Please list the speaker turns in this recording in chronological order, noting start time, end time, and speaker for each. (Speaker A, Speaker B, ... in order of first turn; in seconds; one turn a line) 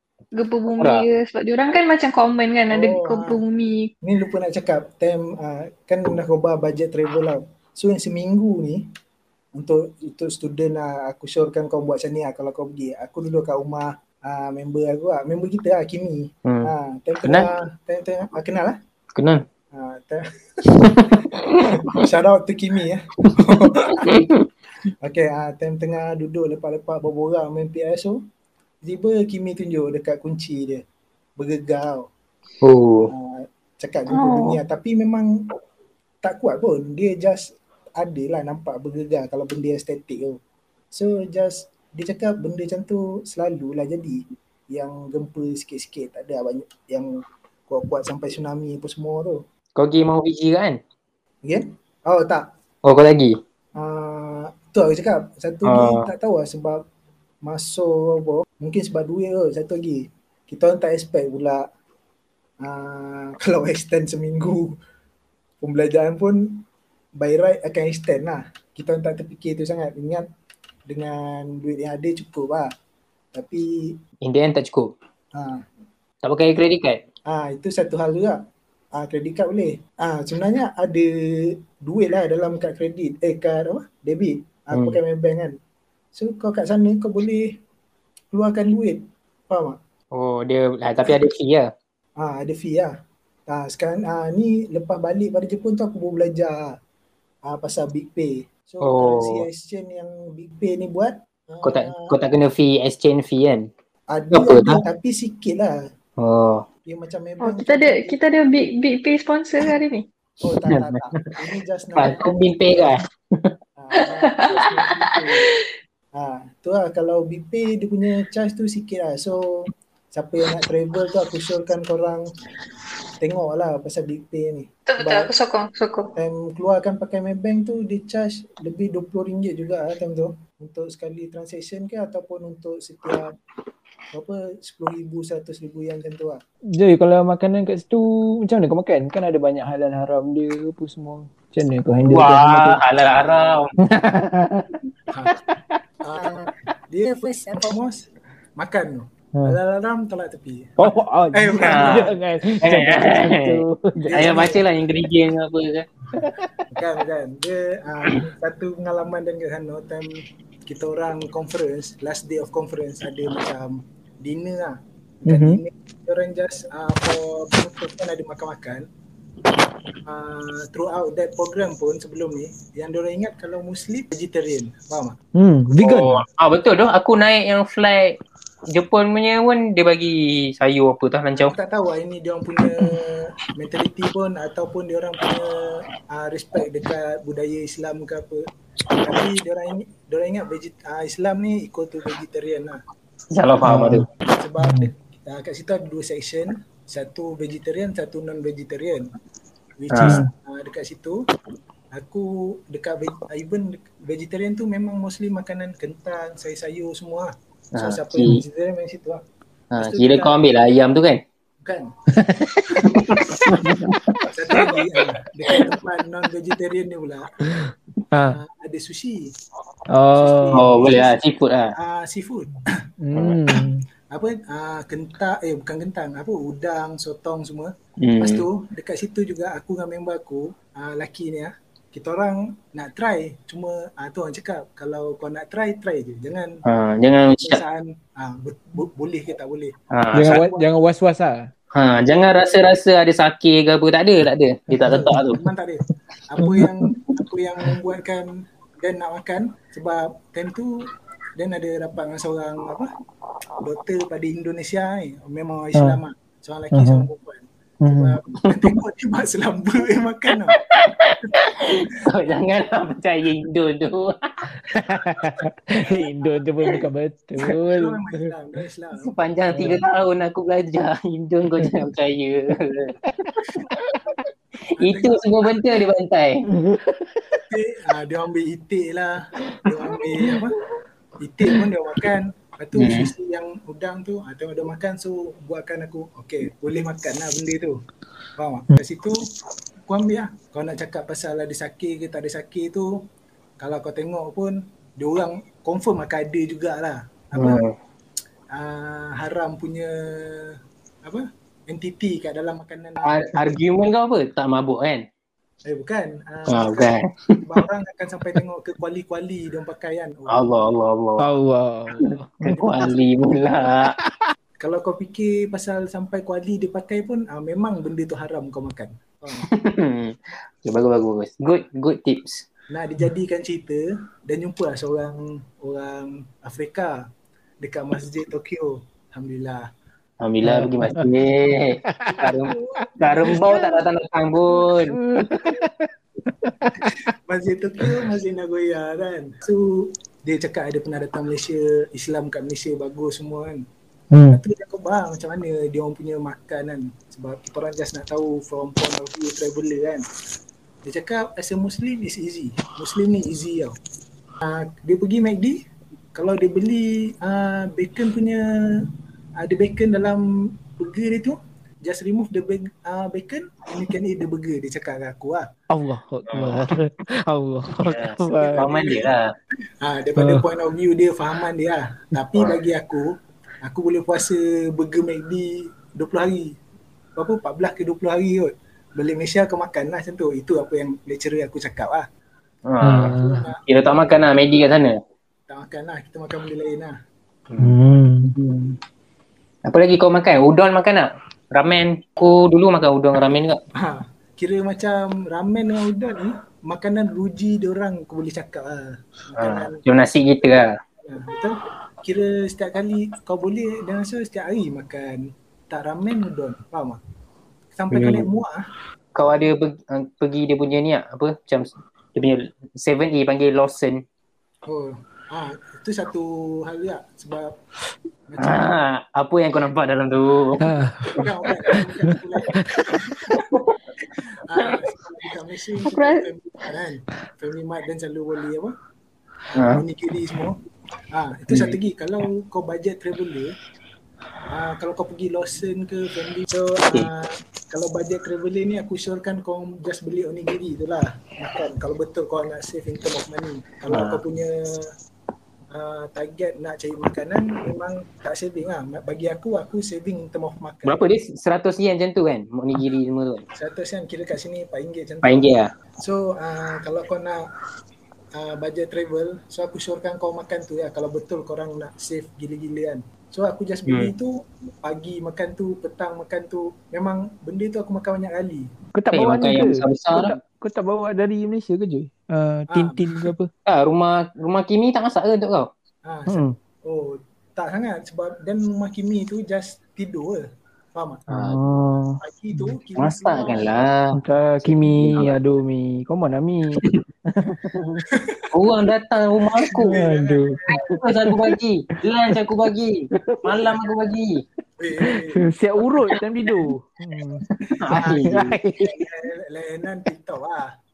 Speaker A: 0.3-3.9
Speaker B: 0.8-1.1
Speaker C: 2.7-3.4
Speaker C: 4.0-8.8
Speaker C: 9.6-18.8
Speaker B: 16.5-16.7
Speaker B: 19.2-19.4
Speaker C: 19.7-21.0
Speaker B: 20.7-22.0
Speaker C: 21.7-24.3
Speaker B: 23.3-24.4
Speaker C: 25.0-28.2
Speaker C: 28.8-30.8
Speaker C: 31.4-32.1
Speaker B: 32.6-33.1
Speaker C: 33.1-35.3
Speaker A: 34.1-34.6
Speaker C: 36.2-40.4
Speaker C: 40.9-47.1
Speaker C: 47.7-49.4
Speaker B: 49.8-50.8
Speaker C: 51.5-52.5
Speaker B: 52.9-53.4
Speaker C: 53.8-56.8
Speaker B: 55.7-56.1
Speaker C: 57.5-61.6
Speaker C: 62.6-64.8
Speaker C: 65.6-66.6
Speaker C: 67.2-70.2
Speaker C: 70.9-72.7
Speaker C: 73.3-73.7
Speaker B: 74.2-74.9
Speaker C: 75.3-75.6
Speaker B: 76.2-77.0
Speaker C: 77.3-78.4
Speaker C: 79.0-85.5
Speaker B: 84.7-85.0
Speaker C: 86.2-87.5
Speaker C: 88.3-89.8
Speaker B: 90.2-91.7
Speaker C: 92.2-92.9
Speaker C: 93.5-96.6
Speaker C: 97.5-102.1
Speaker B: 98.8-99.4
Speaker B: 101.6-103.7
Speaker C: 104.1-105.8
Speaker B: 104.3-104.8
Speaker B: 106.2-106.6
Speaker C: 106.8-108.2
Speaker A: 107.4-110.1
Speaker C: 110.4-112.3
Speaker B: 110.7-111.3
Speaker B: 112.0-113.5
Speaker C: 113.8-115.5
Speaker A: 114.3-115.2
Speaker C: 116.2-119.4
Speaker C: 120.2-122.2
Speaker C: 123.2-125.3
Speaker A: 124.9-126.1
Speaker C: 126.2-133.3
Speaker C: 134.1-136.4
Speaker D: 136.8-142.8
Speaker B: 142.0-143.7
Speaker D: 143.8-145.8
Speaker C: 146.0-150.8
Speaker D: 150.8-154.5
Speaker C: 151.3-152.5
Speaker B: 151.6-155.9
Speaker C: 154.1-154.7
Speaker D: 156.2-156.7
Speaker C: 156.7-168.8
Speaker D: 165.3-165.6
Speaker C: 170.1-175.2
Speaker D: 175.4-176.2
Speaker B: 175.8-178.2
Speaker B: 178.7-181.5
Speaker C: 181.3-192.8
Speaker B: 193.3-194.1
Speaker D: 193.6-194.1
Speaker C: 193.7-199.1
Speaker D: 194.6-194.9
Speaker C: 199.8-201.2
Speaker B: 199.9-200.2
Speaker D: 200.0-200.3
Speaker C: 201.9-209.2
Speaker B: 207.8-208.4
Speaker B: 209.7-211.2
Speaker C: 209.8-210.4
Speaker C: 211.6-211.9
Speaker B: 212.2-214.2
Speaker D: 213.6-214.0
Speaker C: 214.3-217.6
Speaker D: 217.5-218.4
Speaker C: 218.2-219.2
Speaker D: 219.9-221.0
Speaker C: 220.1-221.2
Speaker B: 220.5-221.8
Speaker C: 221.8-222.6
Speaker D: 223.0-223.8
Speaker C: 224.1-236.6
Speaker B: 228.0-228.5
Speaker B: 236.7-237.6
Speaker C: 237.4-240.7
Speaker B: 239.9-240.4
Speaker D: 240.1-241.5
Speaker B: 241.7-245.4
Speaker D: 244.8-245.3
Speaker C: 244.8-250.7
Speaker D: 246.4-246.8
Speaker C: 251.4-252.9
Speaker C: 253.6-260.6
Speaker D: 255.8-256.0
Speaker D: 256.7-257.1
Speaker D: 257.8-258.2
Speaker B: 260.5-264.5
Speaker D: 264.6-268.3
Speaker C: 267.7-269.1
Speaker B: 269.0-272.9
Speaker D: 269.5-269.8
Speaker D: 273.1-274.2
Speaker C: 274.8-275.6
Speaker B: 274.8-276.4
Speaker D: 276.6-277.4
Speaker C: 277.4-280.6
Speaker D: 279.5-280.5
Speaker C: 281.2-287.8
Speaker D: 281.4-281.7
Speaker B: 282.8-283.1
Speaker C: 288.4-289.2
Speaker C: 289.9-292.9
Speaker C: 293.6-297.7
Speaker B: 297.4-297.8
Speaker C: 298.5-303.6
Speaker B: 303.0-305.0
Speaker C: 305.6-310.5
Speaker B: 306.5-307.4
Speaker B: 310.3-311.3
Speaker D: 311.2-312.5
Speaker B: 312.0-313.9
Speaker C: 312.5-313.2
Speaker D: 314.0-314.3
Speaker C: 314.6-319.5
Speaker B: 319.4-322.5
Speaker C: 322.7-327.0
Speaker C: 327.6-329.6
Speaker B: 330.2-335.0
Speaker D: 330.4-331.1
Speaker D: 332.0-333.8
Speaker C: 332.2-333.8
Speaker D: 334.9-337.1
Speaker C: 336.8-343.6
Speaker D: 344.1-344.4
Speaker C: 344.3-350.1
Speaker C: 350.9-353.8
Speaker C: 354.4-355.6
Speaker C: 356.1-358.9
Speaker C: 359.4-365.5
Speaker D: 365.7-368.7
Speaker B: 366.3-366.6
Speaker B: 367.8-369.3
Speaker C: 368.3-369.1
Speaker C: 369.8-373.1
Speaker D: 370.2-370.4
Speaker C: 373.6-376.5
Speaker C: 377.2-382.1
Speaker B: 382.7-385.0
Speaker D: 382.8-383.5
Speaker C: 383.1-384.0
Speaker C: 385.5-386.9
Speaker B: 387.5-387.8
Speaker D: 387.6-388.4
Speaker B: 388.4-388.7
Speaker B: 389.6-393.6
Speaker C: 393.8-399.8
Speaker B: 399.4-400.8
Speaker C: 401.0-407.0
Speaker C: 407.8-408.6
Speaker B: 407.9-408.3
Speaker B: 409.1-414.0
Speaker C: 414.7-417.5
Speaker C: 418.3-418.8
Speaker B: 418.4-420.7
Speaker D: 420.6-423.4
Speaker C: 421.1-423.5
Speaker C: 424.4-428.7
Speaker A: 425.9-426.3
Speaker C: 429.5-430.6
Speaker B: 429.6-429.9
Speaker C: 431.1-433.5
Speaker B: 431.5-431.8
Speaker C: 434.5-444.9
Speaker B: 443.9-444.2
Speaker C: 445.7-451.0
Speaker B: 450.9-453.4
Speaker C: 453.6-457.4
Speaker B: 455.2-455.7
Speaker C: 458.4-468.7
Speaker D: 468.9-473.5
Speaker B: 469.1-470.4
Speaker C: 469.4-469.6
Speaker C: 472.7-473.3
Speaker B: 473.7-475.7
Speaker C: 476.1-480.4
Speaker D: 476.3-476.6
Speaker C: 480.9-481.2
Speaker B: 481.3-481.6
Speaker D: 481.3-482.7
Speaker C: 482.2-483.7
Speaker B: 483.0-485.4
Speaker D: 484.2-488.1
Speaker C: 488.2-488.5
Speaker B: 488.5-490.0
Speaker D: 489.6-491.6
Speaker C: 489.8-490.6
Speaker B: 490.8-494.4
Speaker D: 493.2-493.8
Speaker C: 494.8-495.5
Speaker D: 495.0-499.0
Speaker B: 497.5-498.6
Speaker C: 497.8-500.7